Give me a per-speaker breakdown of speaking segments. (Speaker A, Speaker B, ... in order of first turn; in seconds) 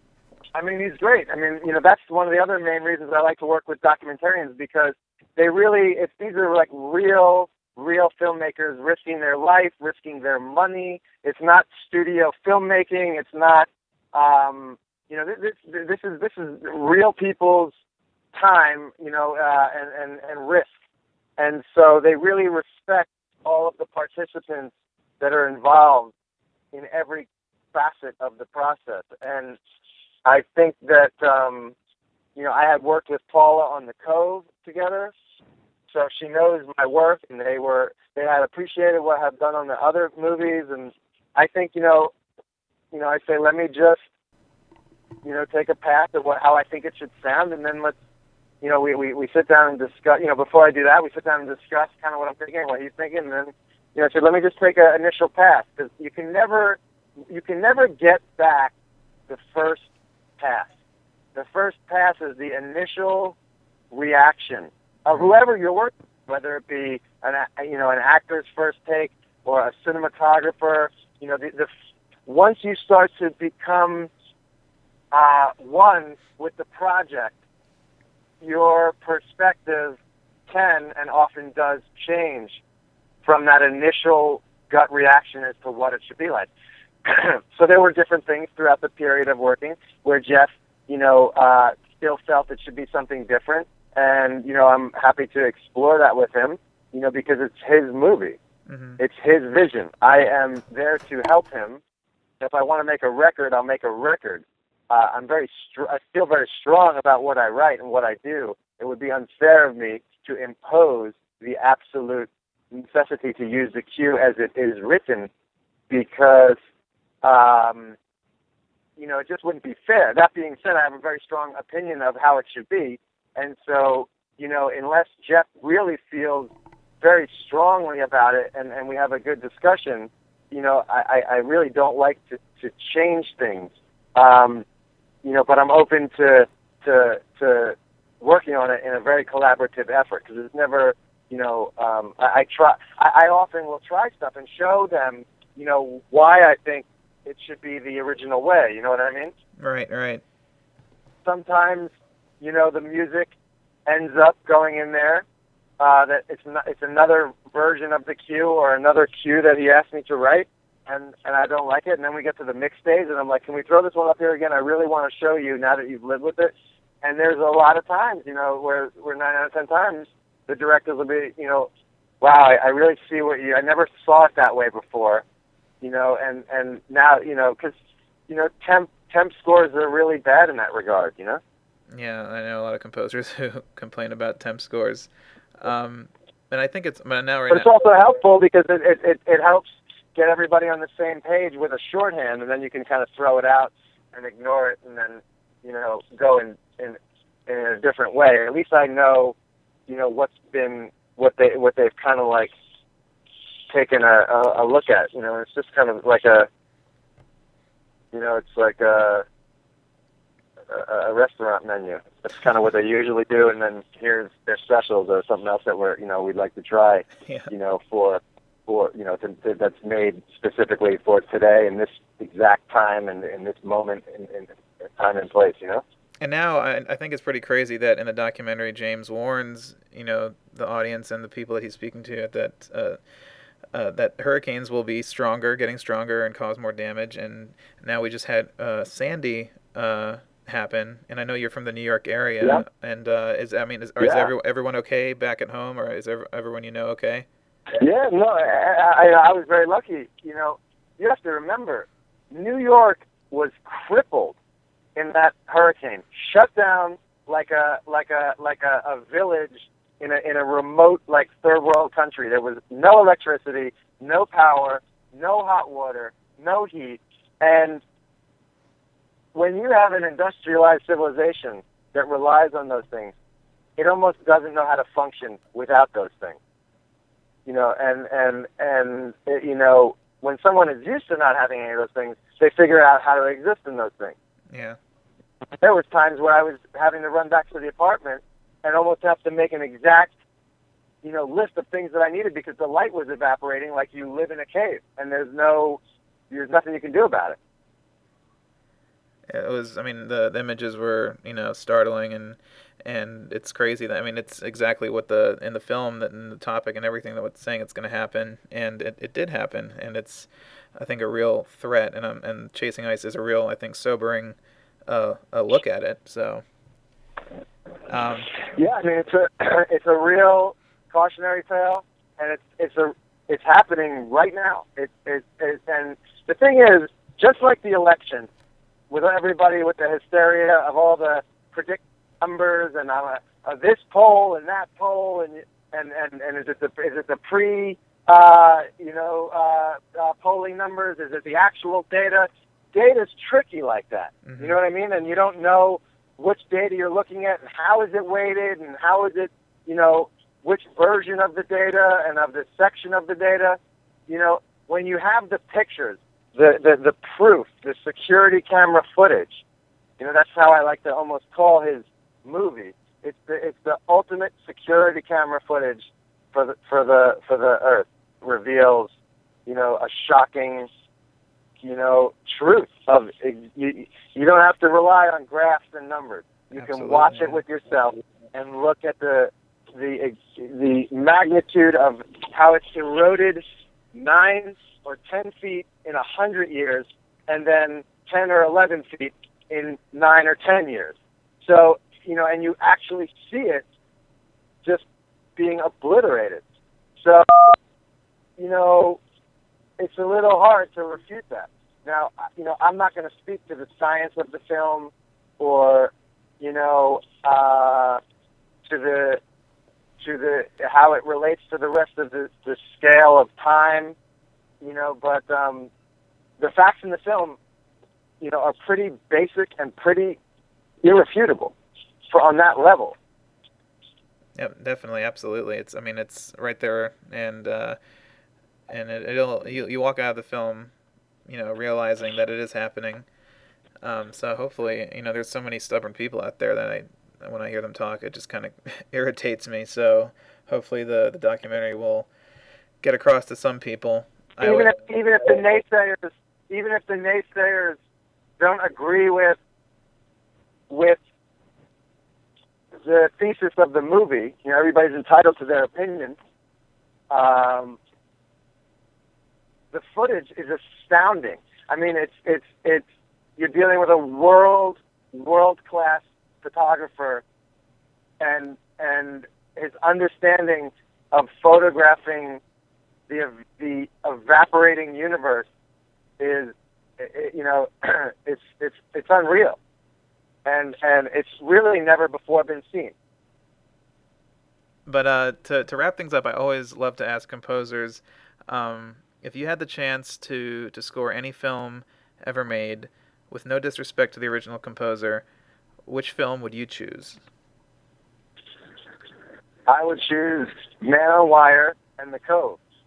Speaker A: 0.5-17.7, 18.3-20.7, 21.4-26.1, 26.7-29.6, 30.2-31.7, 32.4-35.1, 35.9-42.1, 42.9-44.0, 45.2-47.9, 48.6-56.8, 57.3-58.7, 59.3-60.7, 61.3-63.4, 63.9-71.7, 72.2-74.1, 75.1-77.4, 78.4-82.6, 83.2-86.5, 87.0-98.4, 99.0-101.8, 102.4-115.3, 115.9-116.6, 117.2-118.0, 119.0-134.6, 135.2-149.3, 151.2-153.3, 153.9-155.2, 155.8-171.7, 172.2-175.2, 175.8-177.8, 178.3-181.4, 187.5-199.3, 199.9-202.5, 203.7-206.5, 208.1-209.2, 210.7-225.8, 244.0-244.3, 247.7-254.4, 254.9-267.8, 269.3-273.1, 273.8-276.4, 277.4-284.1, 285.6-290.1, 291.0-297.4, 318.5-328.3, 328.9-359.4, 360.0-368.9, 369.4-370.7, 371.6-393.6, 395.4-396.4, 397.0-397.5, 398.4-399.0, 399.8-408.0, 408.6-409.2, 410.0-413.9, 414.6-415.7, 416.4-417.4, 418.2-420.2, 420.8-421.5, 422.1-422.9, 444.4-447.8, 448.4-449.4, 450.7-451.0, 452.8-456.2, 457.1-457.8, 459.7-462.8, 463.4-467.2, 468.2-472.4, 473.1-475.5, 476.2-479.6, 480.4-482.9, 499.7-502.6
Speaker B: 98.7-99.0, 149.6-150.2, 181.9-187.7, 226.2-233.0, 233.7-247.2, 284.5-284.8, 299.3-314.4, 314.9-316.4, 317.9-318.3, 344.2-344.6, 376.6-377.4, 424.4-427.8, 428.7-430.7, 431.3-433.1, 433.8-442.1, 442.8-444.7, 484.9-495.2, 495.9-497.2